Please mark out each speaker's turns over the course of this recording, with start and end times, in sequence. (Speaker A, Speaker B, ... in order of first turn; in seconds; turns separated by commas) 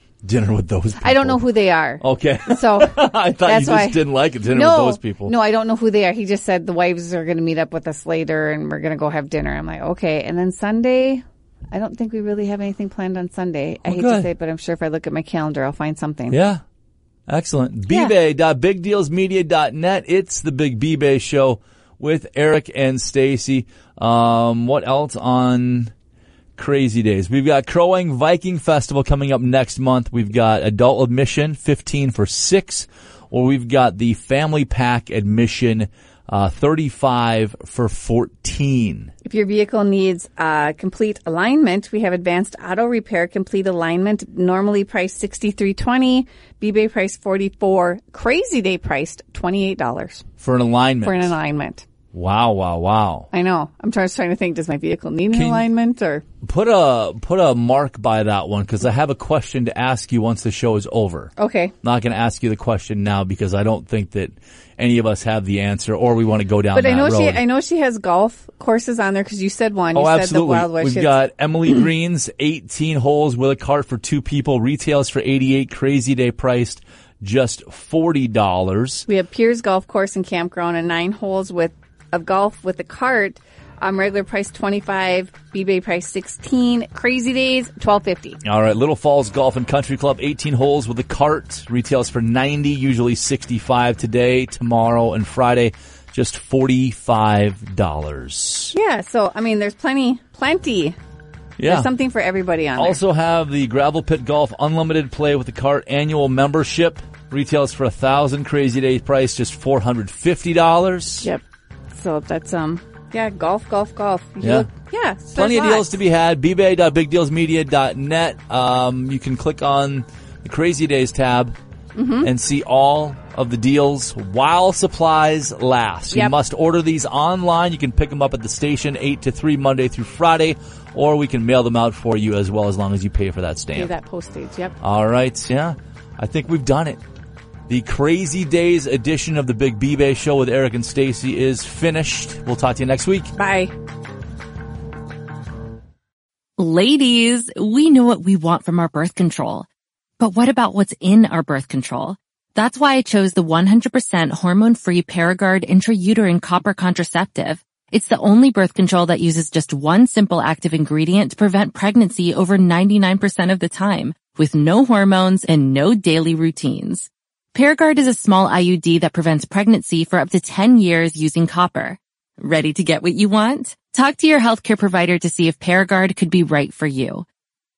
Speaker A: 0.2-1.4, Speaker B: 1.0-16.4, Speaker A: 2.0-5.3, Speaker A: 13.9-14.3, Speaker A: 16.3-16.6, Speaker A: 17.3-25.9, Speaker A: 26.6-39.1, Speaker B: 39.2-50.2, Speaker A: 50.4-51.4, Speaker B: 51.0-51.9, Speaker A: 52.1-53.3, Speaker B: 53.3-56.2, Speaker A: 55.3-55.7, Speaker A: 56.4-61.3, Speaker B: 61.4-61.7, Speaker A: 61.8-67.4, Speaker B: 66.7-71.2, Speaker A: 69.9-79.1, Speaker B: 79.1-88.4, Speaker A: 88.4-98.8, Speaker B: 98.7-101.0, Speaker A: 101.6-101.9, Speaker B: 101.7-103.0, Speaker A: 102.8-111.3, Speaker B: 111.2-115.9, Speaker A: 114.4-114.7, Speaker A: 115.3-121.5, Speaker B: 122.0-122.3, Speaker A: 122.2-133.9, Speaker B: 133.8-134.8, Speaker A: 134.8-137.0, Speaker A: 137.7-143.3, Speaker B: 143.4-143.7, Speaker C: 146.6-149.7, Speaker C: 150.2-177.3